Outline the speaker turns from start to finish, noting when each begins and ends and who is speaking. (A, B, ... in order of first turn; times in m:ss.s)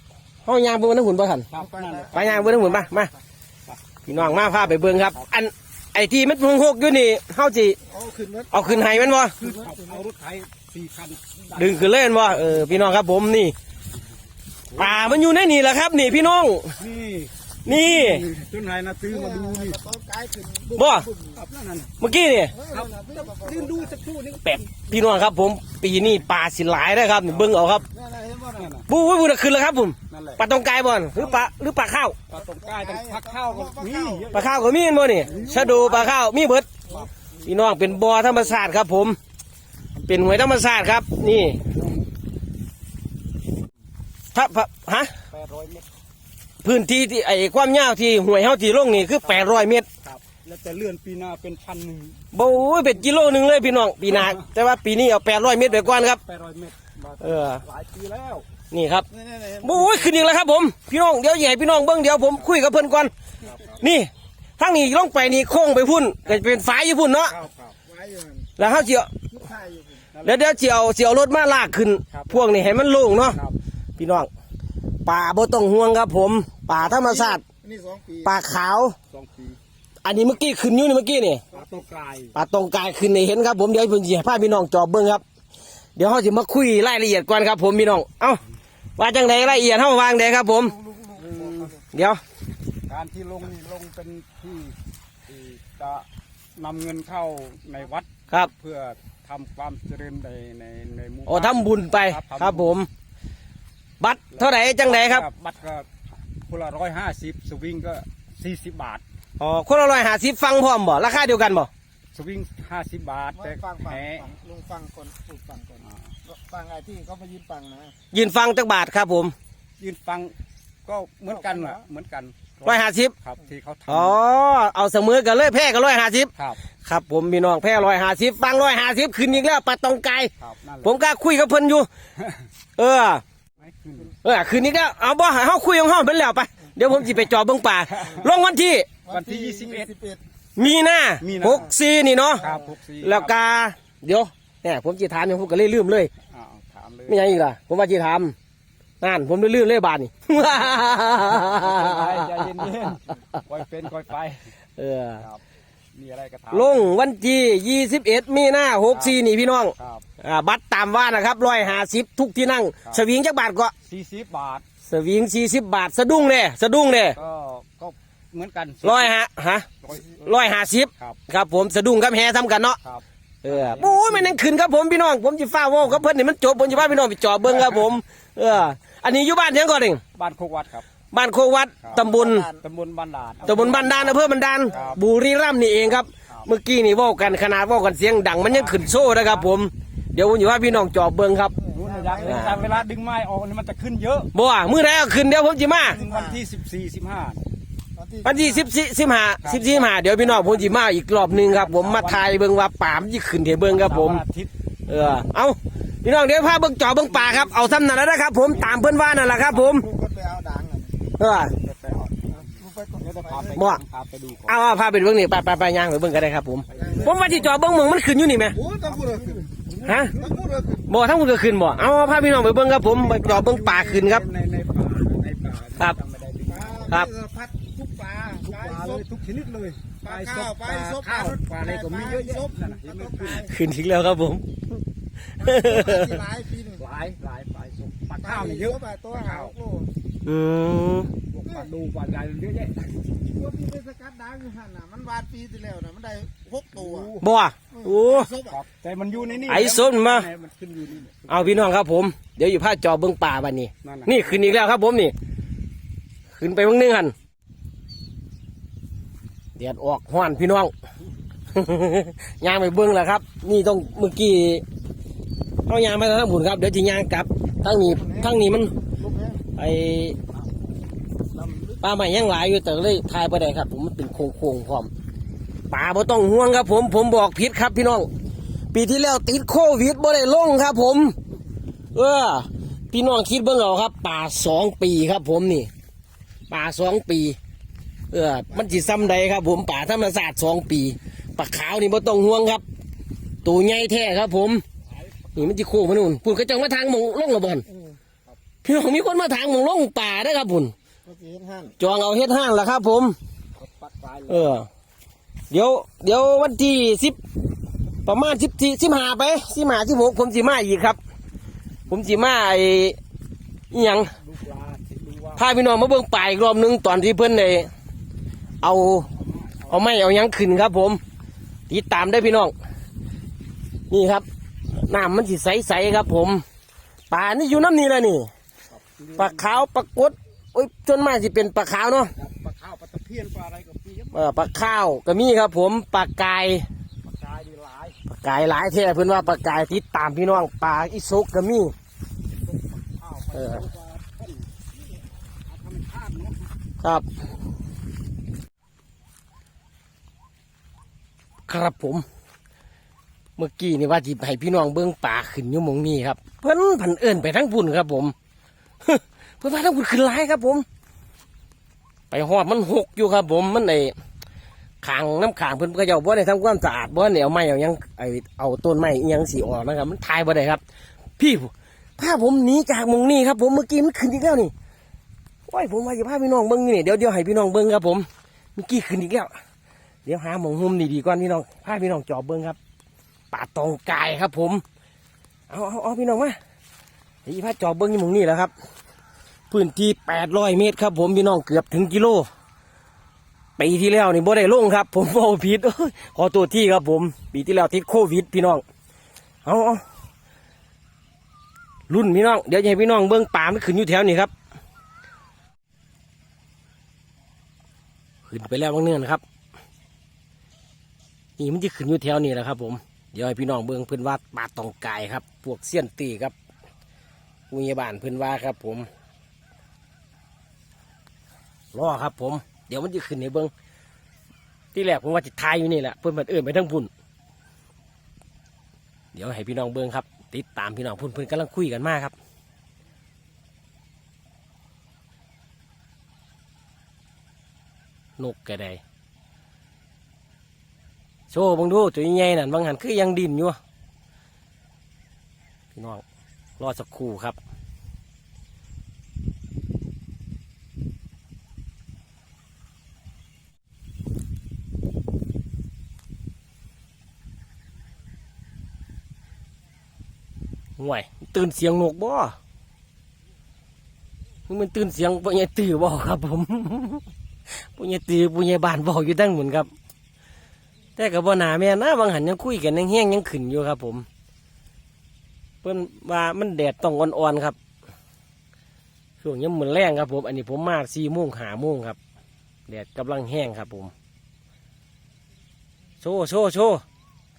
0:00.4-0:01.5 A
0:01.5-0:02.8 B
0:02.1-0:03.1 A
0:03.7-0:05.3 B
0:04.0-0:07.8 A
0:07.9-0:08.6 C
0:08.5-0:09.4 A
0:09.4-0:11.8 B
0:09.4-0:09.8 C
0:11.5-0:13.5 A
0:14.7-0:15.2 B
0:14.8-0:16.8 A
0:16.8-0:19.8 B
0:17.6-0:18.2 A
0:19.3-0:21.3 C
0:20.8-0:21.1 A
0:21.3-0:22.0 B
0:22.0-0:22.6 A
0:22.6-0:23.8 C
0:22.6-0:24.7 B
0:24.4-0:27.9 A
0:27.9-0:28.7 C
0:28.5-0:28.8 B
0:28.9-0:32.2 A
0:30.1-0:30.4 B
0:31.1-0:31.5 B
0:32.3-0:34.6 B
0:33.5-0:34.3 C
0:34.3-0:36.7 A
0:35.2-0:36.1 B
0:36.9-0:38.3 B
0:37.4-0:39.2 A
0:40.0-0:41.6 A
0:41.5-0:42.1 B
0:44.3-0:45.1 A
0:45.3-0:45.8 B
0:46.6-0:49.9 A
0:48.9-0:52.2 B
0:52.3-0:56.2 A
0:54.1-0:54.4 B
0:55.6-0:58.5 B
0:57.2-0:57.6 A
0:58.7-0:59.1 A
0:59.1-0:59.7 C
0:59.6-1:03.1 A
1:03.4-1:03.8 B
1:03.8-1:07.4 A
1:07.3-1:07.8 B
1:07.9-1:08.5 C
1:08.6-1:09.1 A
1:09.4-1:10.0 C
1:10.1-1:10.5 B
1:10.2-1:13.4 A
1:12.1-1:12.5 B
1:13.2-1:13.6 B
1:14.0-1:14.3 A
1:15.0-1:17.4 A
1:17.0-1:18.2 C
1:18.2-1:19.0 A
1:19.1-1:19.6 B
1:20.0-1:21.4 A
1:21.5-1:22.3 B
1:22.3-1:25.2 A
1:26.0-1:28.4 A
1:29.0-1:30.8 A
1:30.9-1:31.6 C
1:31.1-1:31.7 B
1:31.9-1:32.2 A
1:32.9-1:42.7 B
1:41.3-1:42.9 A
1:44.0-1:45.2 A
1:44.3-1:45.9 B
1:46.4-1:49.0 B
1:49.4-1:51.7 A
1:52.1-1:54.3 B
1:53.5-1:57.9 C
1:55.8-1:56.1 B
1:58.1-1:59.3 A
1:59.8-2:00.3 B
2:00.8-2:04.2 B
2:02.6-2:03.1 A
2:03.9-2:06.3 A
2:06.8-2:10.3 A
2:10.4-2:11.0 B
2:10.8-2:11.9 A
2:12.8-2:13.2 A
2:13.6-2:14.2 B
2:14.2-2:18.9 A
2:17.9-2:18.3 B
2:19.1-2:19.9 B
2:19.1-2:20.2 C
2:20.6-2:22.5 A
2:21.2-2:21.7 B
2:22.4-2:23.3 B
2:23.0-2:26.1 A
2:26.3-2:27.3 B
2:27.1-2:28.3 A
2:29.0-2:32.7 A
2:31.1-2:34.5 B
2:34.8-2:35.2 A
2:35.9-2:36.9 B
2:36.5-2:43.7 A
2:38.9-2:39.2 B
2:39.8-2:40.0 B
2:43.8-2:44.6 B
2:44.8-2:47.2 A
2:47.1-2:49.1 B
2:48.8-2:52.8 A
2:49.8-2:51.2 B
2:52.8-2:54.4 B
2:53.4-3:00.0 A
2:57.5-2:57.8 B
3:00.1-3:00.8 B
3:01.1-3:02.5 A
3:02.0-3:02.6 C
3:02.6-3:05.0 B
3:03.4-3:11.5 A
3:08.4-3:09.5 B
3:11.6-3:12.4 C
3:11.7-3:14.3 B
3:12.2-3:12.6 A
3:14.3-3:16.0 A
3:15.8-3:17.4 B
3:18.0-3:18.3 C
3:18.2-3:24.2 A
3:19.4-3:22.3 B
3:23.6-3:24.5 B
3:24.9-3:29.9 A
3:27.1-3:27.9 B
3:29.7-3:31.0 C
3:31.2-3:31.5 A
3:31.5-3:34.5 B
3:32.6-3:33.5 C
3:33.5-3:33.8 A
3:34.5-3:38.6 A
3:36.7-3:37.3 B
3:36.8-3:37.1 C
3:38.6-3:39.3 C
3:38.7-3:40.7 B
3:39.8-3:40.1 A
3:40.1-3:40.8 C
3:40.9-3:44.2 A
3:41.8-3:47.0 B
3:46.7-3:48.8 C
3:48.3-3:53.5 B
3:50.1-3:53.3 C
3:53.4-3:54.4 A
3:55.3-3:56.2 A
3:55.5-3:56.7 C
3:56.7-3:59.6 B
3:58.4-3:59.9 C
4:00.2-4:01.1 A
4:01.3-4:03.1 B
4:03.3-4:07.1 C
4:06.7-4:07.2 B
4:07.2-4:08.3 A
4:08.2-4:08.5 C
4:08.4-4:11.7 B
4:09.5-4:10.3 A
4:11.3-4:15.1 A
4:13.8-4:14.3 B
4:16.4-4:17.1 A
4:19.6-4:20.7 A
4:21.5-4:24.6 A
4:25.7-4:28.7 A
4:29.0-4:29.4 C
4:29.5-4:30.2 A
4:31.8-4:34.9 A
4:35.7-4:38.1 A
4:38.7-4:41.2 A
4:41.9-4:45.7 A
4:46.5-4:47.4 A
4:48.1-4:52.6 A
4:53.4-4:54.6 A
4:54.9-4:55.5 B
4:55.3-4:57.7 A
4:58.6-5:00.7 A
5:01.1-5:01.7 C
5:01.8-5:03.2 A
5:03.6-5:04.6 B
5:04.3-5:04.7 A
5:05.5-5:07.2 A
5:08.0-5:11.0 A
5:11.9-5:13.0 A
5:13.7-5:14.1 A
5:14.0-5:15.4 B
5:15.4-5:17.7 A
5:18.6-5:19.1 A
5:19.2-5:19.8 B
5:19.7-5:21.0 A
5:21.7-5:22.5 A
5:23.9-5:24.2 A
5:24.8-5:26.4 A
5:27.1-5:28.3 A
5:28.7-5:29.6 B
5:29.2-5:32.1 A
5:32.2-5:34.4 B
5:34.1-5:36.6 A
5:37.0-5:38.0 B
5:38.0-5:41.7 A
5:42.4-5:46.5 B
5:43.3-5:43.6 A
5:46.8-5:47.1 A
5:51.5-5:52.0 A
5:53.4-5:58.1 A
5:58.8-6:00.6 A
6:02.1-6:03.9 A
6:04.8-6:10.6 A
6:11.2-6:14.5 A
6:15.5-6:19.3 A
6:20.0-6:22.6 A
6:23.3-6:24.6 A
6:25.5-6:26.4 A
6:27.2-6:28.5 A
6:29.5-6:32.3 A
6:33.6-6:38.6 A
6:39.4-6:39.8 A
6:41.9-6:44.3 A
6:48.3-6:49.2 A
6:51.4-6:56.3 A
6:57.5-6:58.9 A
7:01.7-7:03.5 A
7:04.7-7:06.9 A
7:09.1-7:12.1 A
7:18.2-7:18.8 A
7:21.3-7:23.6 A
7:25.7-7:26.0 A
7:26.6-7:27.4 A
7:40.8-7:42.4 A
7:44.5-7:47.0 A
7:47.7-7:49.7 A
7:51.0-7:54.0 A
7:55.6-7:57.6 A
7:59.2-8:02.0 A
8:02.7-8:03.9 A
8:06.0-8:06.8 A